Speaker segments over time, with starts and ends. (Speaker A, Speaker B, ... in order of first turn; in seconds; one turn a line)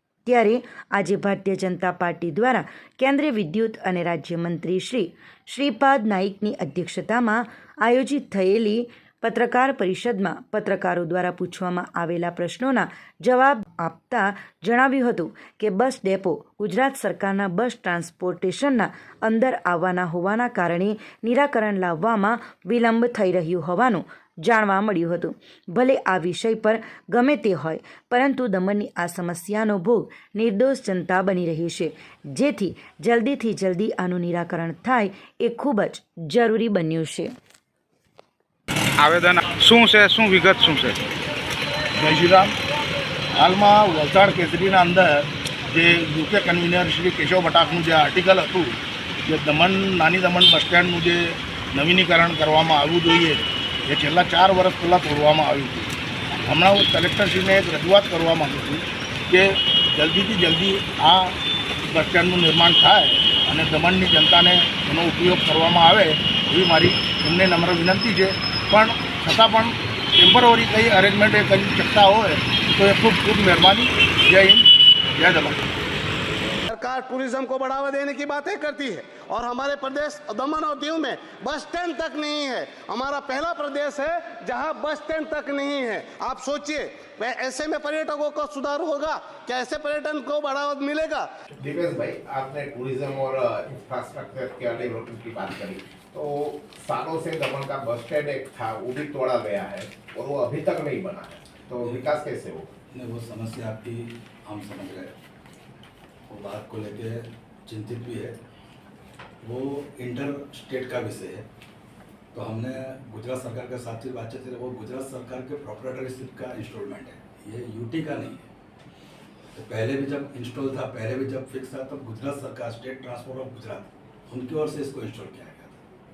Speaker A: 0.2-37.3
Speaker B: 39.0-41.0
Speaker C: 41.9-42.5
Speaker C: 43.3-55.9
Speaker C: 56.5-75.7
Speaker D: 76.7-91.3
Speaker E: 91.5-102.7
Speaker F: 102.9-105.1
Speaker F: 106.3-108.4
Speaker F: 109.4-111.5
Speaker F: 112.3-118.4
Speaker F: 119.5-125.8